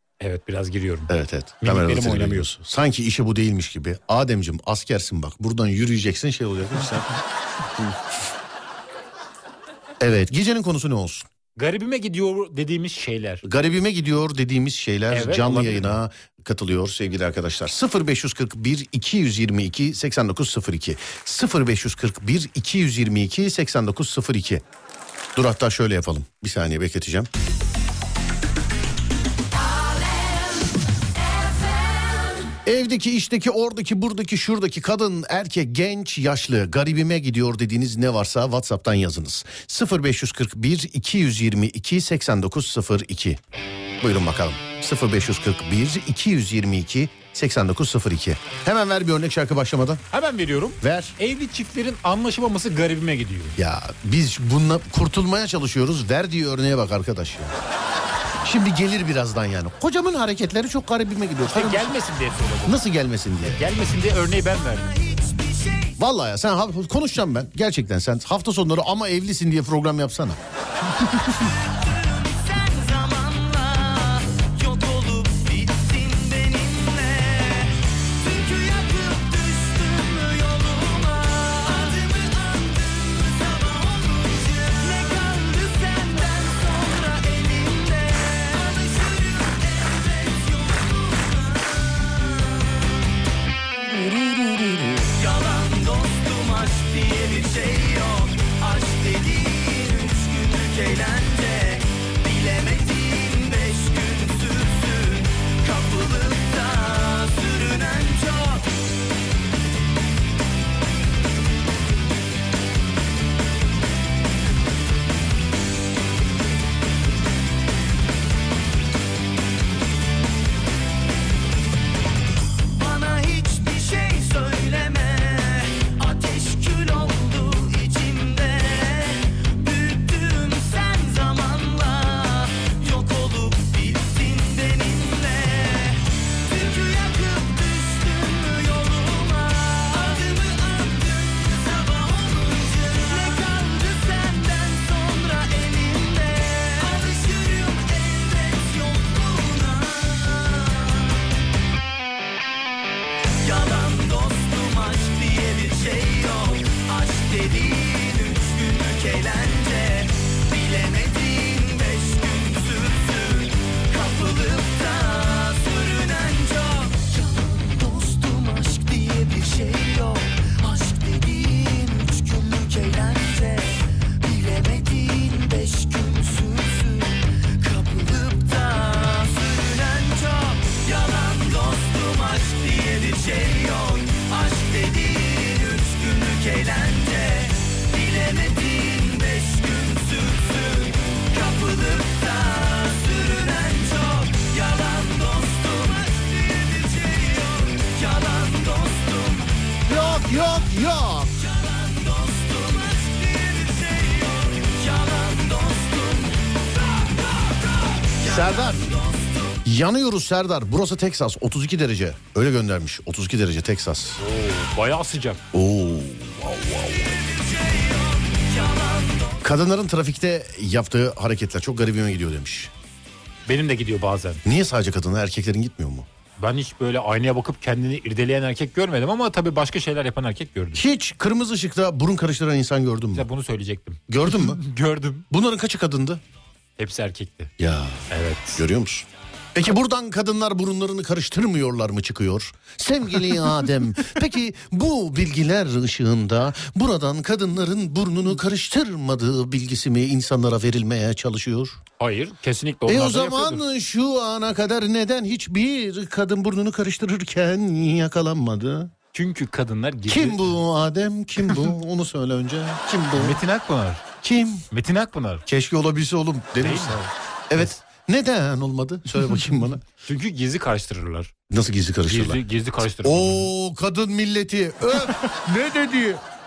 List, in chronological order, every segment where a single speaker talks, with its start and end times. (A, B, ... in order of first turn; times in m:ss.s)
0:00.2-0:01.1 A
0:01.1-0:07.1 B
0:01.6-0:02.5 A
0:07.8-0:08.0 B
0:10.0-0:11.3 B
0:11.6-0:13.4 A
0:13.4-0:24.6 B
0:15.1-0:16.0 A
0:25.4-0:27.3 B
0:32.6-0:43.4 B
0:44.0-0:50.0 B
0:50.1-0:53.6 A
0:50.8-0:51.2 B
0:53.6-0:57.6 B
0:58.4-1:02.0 B
1:01.5-1:02.8 A
1:02.6-1:03.7 B
1:03.4-1:04.9 A
1:04.7-1:06.0 C
1:06.0-1:10.4 B
1:11.3-1:32.8 C
1:35.1-1:48.7 C
2:02.8-2:31.1 C
2:33.4-2:47.3 C
2:48.0-3:20.0 C
3:19.9-3:21.4 B
3:21.4-3:29.6 C
3:28.2-3:29.0 B
3:29.6-3:34.2 B
3:34.2-3:35.4 A
3:35.5-3:37.2 B
3:37.0-3:39.4 C
3:39.4-3:42.7 B
3:43.5-3:44.4 A
3:44.4-3:46.1 B
3:46.4-3:50.8 A
3:50.8-3:53.3 B
3:53.1-3:55.3 A
3:54.1-3:54.6 B
3:55.3-3:56.2 B
3:56.8-3:57.5 A
3:57.6-4:11.8 B
3:58.1-3:58.6 A
4:12.0-4:13.6 A
4:12.9-4:18.9 B
4:19.1-4:20.6 A
4:20.1-4:23.4 B
4:23.2-4:24.0 A
4:24.2-4:24.7 B
4:24.7-4:25.4 A
4:25.5-4:29.8 B
4:26.6-4:27.0 A
4:30.0-4:31.3 A
4:31.5-4:32.4 B
4:32.1-4:33.5 A
4:33.0-4:36.2 B